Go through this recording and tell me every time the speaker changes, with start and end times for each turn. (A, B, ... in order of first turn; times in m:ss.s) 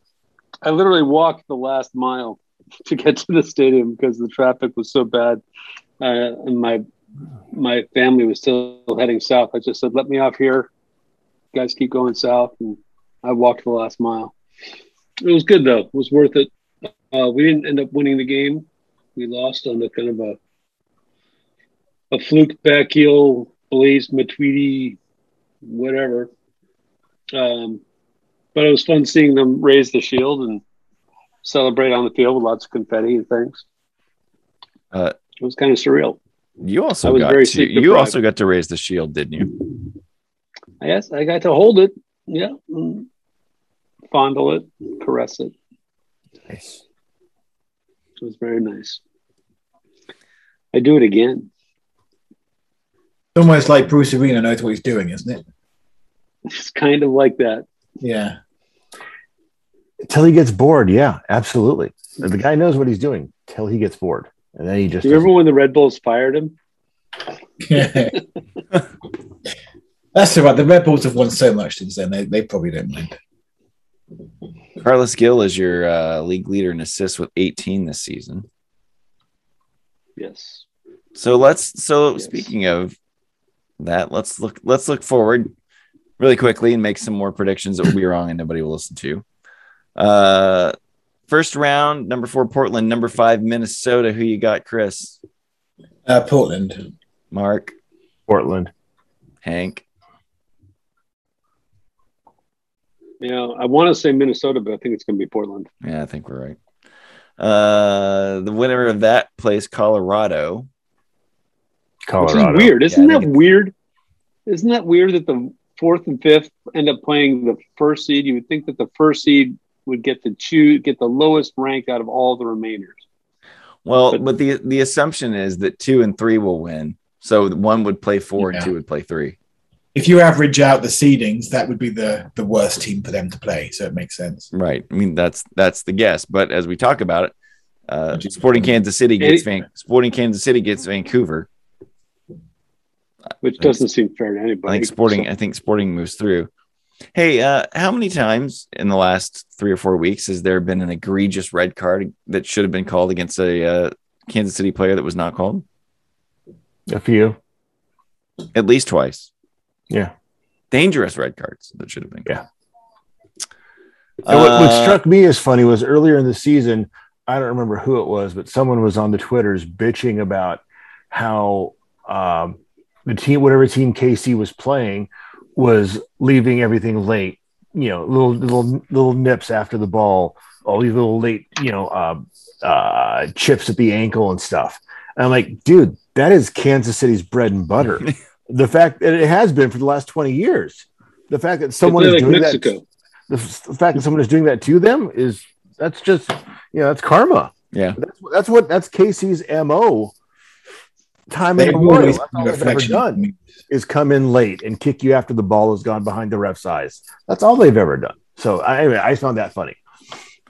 0:00.6-0:05.4 A
0:06.0-0:06.8 A
0:07.5-0:10.7 A
0:11.5-0:14.3 A
0:15.2-0:20.4 A
0:22.1-0:25.0 A
0:25.6-0:26.3 A
0:27.3-0:27.8 A
0:28.6-0:30.6 A
0:31.4-0:33.6 A
0:35.4-0:36.2 A
0:36.6-0:39.6 B
0:37.0-0:38.2 A
0:40.8-0:43.1 A
0:44.1-0:45.5 A
0:46.5-0:46.8 C
0:48.2-0:49.0 A
0:50.7-0:51.5 A
0:53.4-0:55.4 D
0:56.5-0:57.6 A
0:58.0-0:58.4 D
1:00.0-1:05.3 C
1:05.0-1:06.6 A
1:07.6-1:08.2 D
1:10.2-1:13.2 D
1:14.8-1:18.5 B
1:20.2-1:20.6 A
1:21.2-1:23.0 B
1:23.8-1:25.5 B
1:26.2-1:29.2 B
1:30.0-1:30.7 B
1:31.3-1:35.2 B
1:36.1-1:36.9 D
1:37.3-1:37.7 B
1:38.3-1:38.7 C
1:39.4-1:39.8 B
1:43.2-1:45.7 A
1:45.8-1:46.6 B
1:47.4-1:50.7 B
1:52.1-1:52.8 C
1:52.2-1:53.7 A
1:52.9-1:53.3 B
1:54.5-2:03.0 A
2:03.8-2:09.4 B
2:08.4-2:08.7 D
2:10.0-2:14.5 D
2:14.5-2:17.3 B
2:17.9-2:21.5 B
2:19.2-2:19.5 A
2:23.4-2:25.3 A
2:24.7-2:26.5 B
2:27.1-2:35.6 B
2:36.9-2:37.4 C
2:38.5-2:39.3 B
2:40.7-2:42.3 B
2:44.2-2:45.0 B
2:44.3-2:50.6 C
2:51.1-3:12.7 C
3:11.8-3:12.8 A
3:13.3-3:20.1 C
3:17.7-3:18.0 B
3:21.3-3:29.8 C
3:21.6-3:23.4 D